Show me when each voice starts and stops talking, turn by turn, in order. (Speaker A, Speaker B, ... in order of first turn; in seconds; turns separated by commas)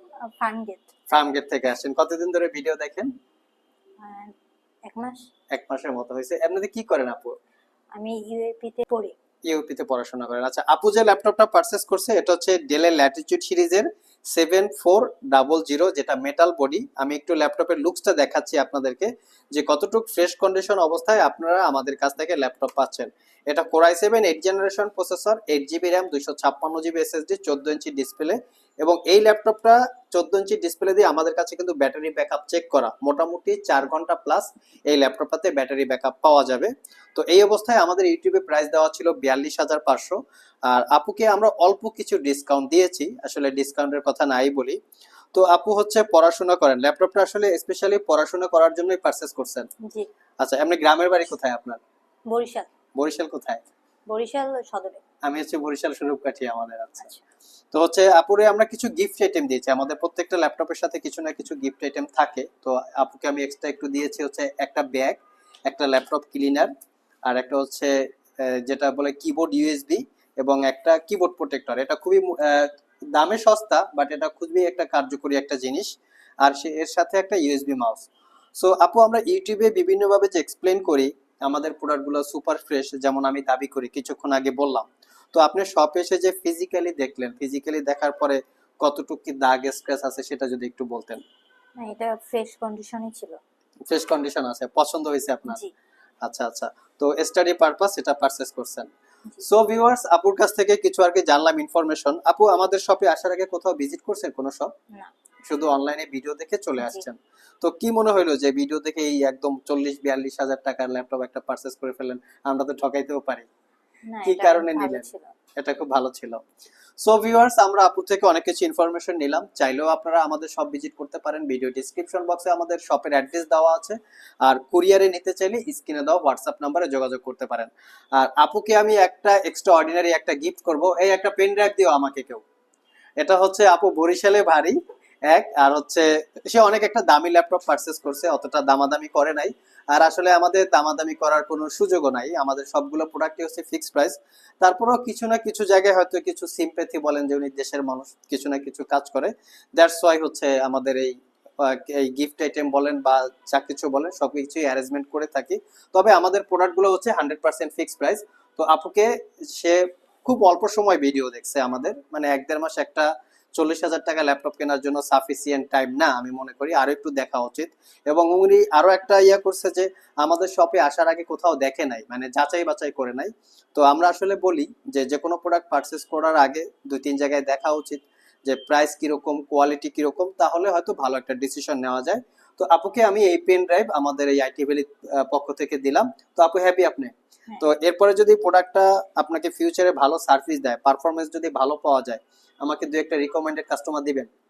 Speaker A: 0.3-0.9, Speaker B: 1.1-3.1, Speaker A: 4.0-4.3, Speaker A: 4.9-5.2, Speaker B: 5.5-7.3, Speaker A: 8.0-9.2, Speaker B: 9.5-44.8, Speaker B: 45.3-49.7, Speaker B: 50.4-51.8, Speaker A: 52.3-52.7, Speaker B: 53.0-53.6, Speaker A: 54.1-55.0, Speaker B: 55.2-57.1, Speaker B: 57.7-66.7, Speaker B: 67.3-75.9, Speaker B: 76.4-91.2, Speaker A: 91.8-93.4, Speaker B: 93.9-95.6, Speaker B: 96.2-98.9, Speaker B: 99.4-104.7, Speaker B: 105.5-113.5, Speaker A: 114.1-115.3, Speaker B: 114.2-115.0, Speaker B: 115.6-116.4, Speaker B: 117.0-132.4, Speaker B: 133.2-134.8, Speaker B: 135.3-194.3